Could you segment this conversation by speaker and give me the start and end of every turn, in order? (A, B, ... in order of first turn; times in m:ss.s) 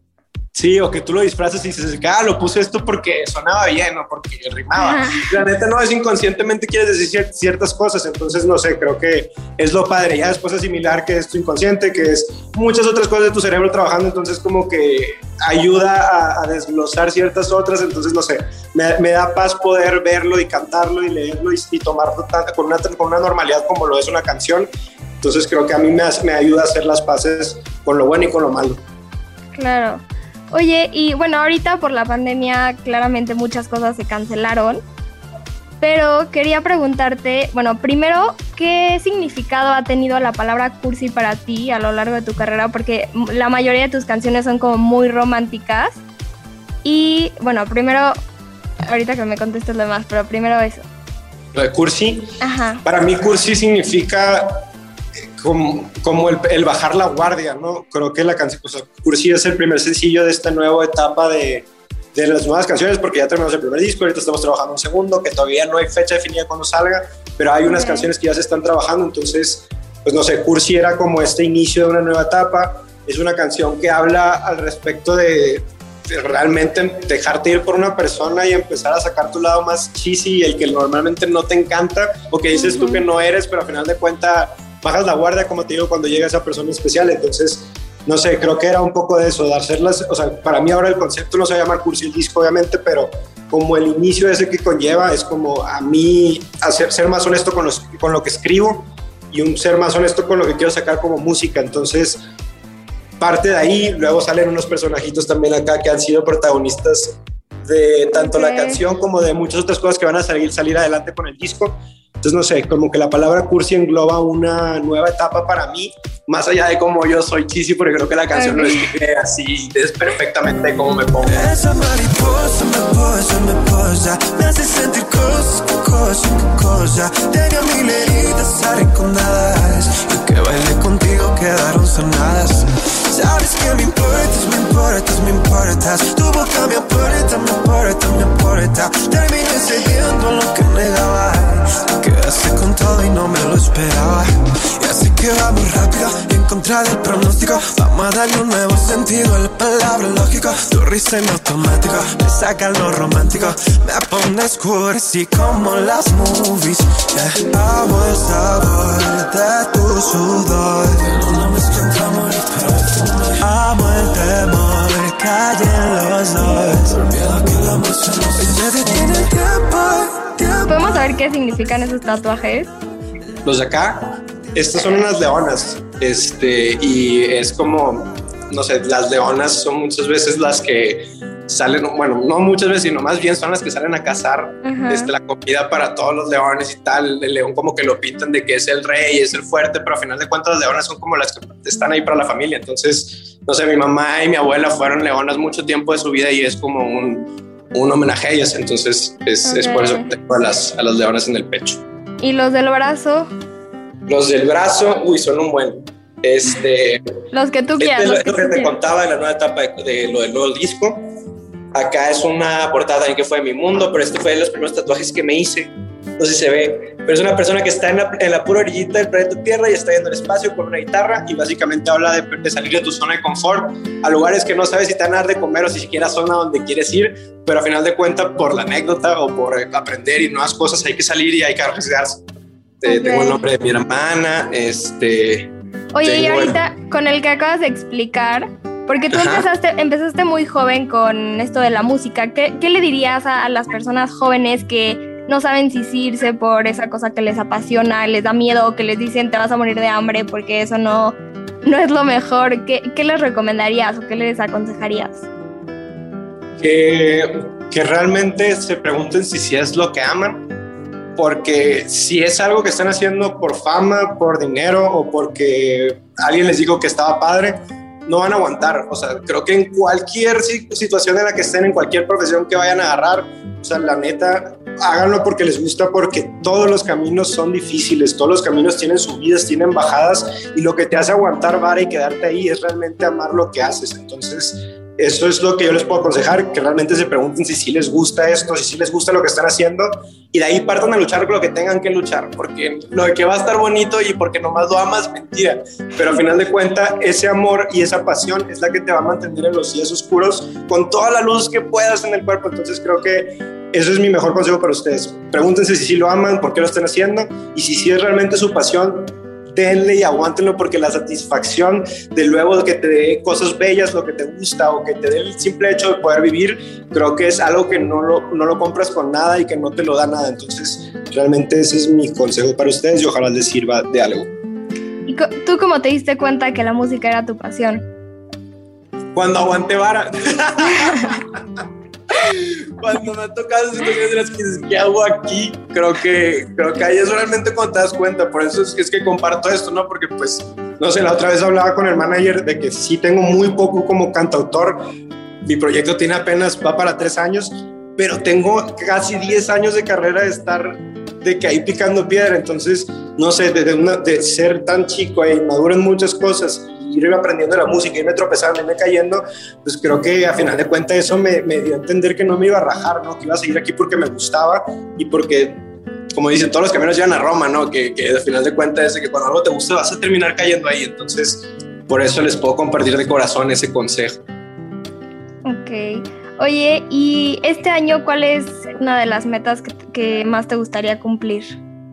0:00.5-0:24.7 A
0:04.8-0:05.3 B
0:25.2-0:28.8 A
0:29.5-0:34.8 B
0:35.8-0:46.0 B
0:46.8-0:48.2 B
0:48.8-0:50.8 B
0:51.5-0:54.7 A
0:52.4-0:52.8 B
0:55.4-1:42.2 A
1:07.6-1:08.1 B
1:22.5-1:23.0 B
1:43.2-2:01.4 A
1:48.1-1:48.8 B
1:58.3-1:58.9 B
2:01.2-2:50.7 C
2:50.6-2:52.7 B
2:53.4-3:21.8 A
3:04.6-3:05.1 B
3:19.4-3:20.1 B
3:22.2-3:23.3 B
3:24.1-3:27.0 A
3:27.3-3:28.7 B
3:27.8-3:31.0 A
3:31.7-3:52.2 A
3:52.8-3:56.6 A
3:52.8-3:53.4 B
3:55.9-4:15.3 B
3:59.1-3:59.4 A
4:16.6-4:20.5 A
4:21.2-5:24.3 A
5:25.0-5:27.8 B
5:29.1-5:31.3 A
5:32.1-5:44.9 A
5:45.4-6:05.6 A
6:06.1-6:14.2 A
6:15.4-6:21.5 B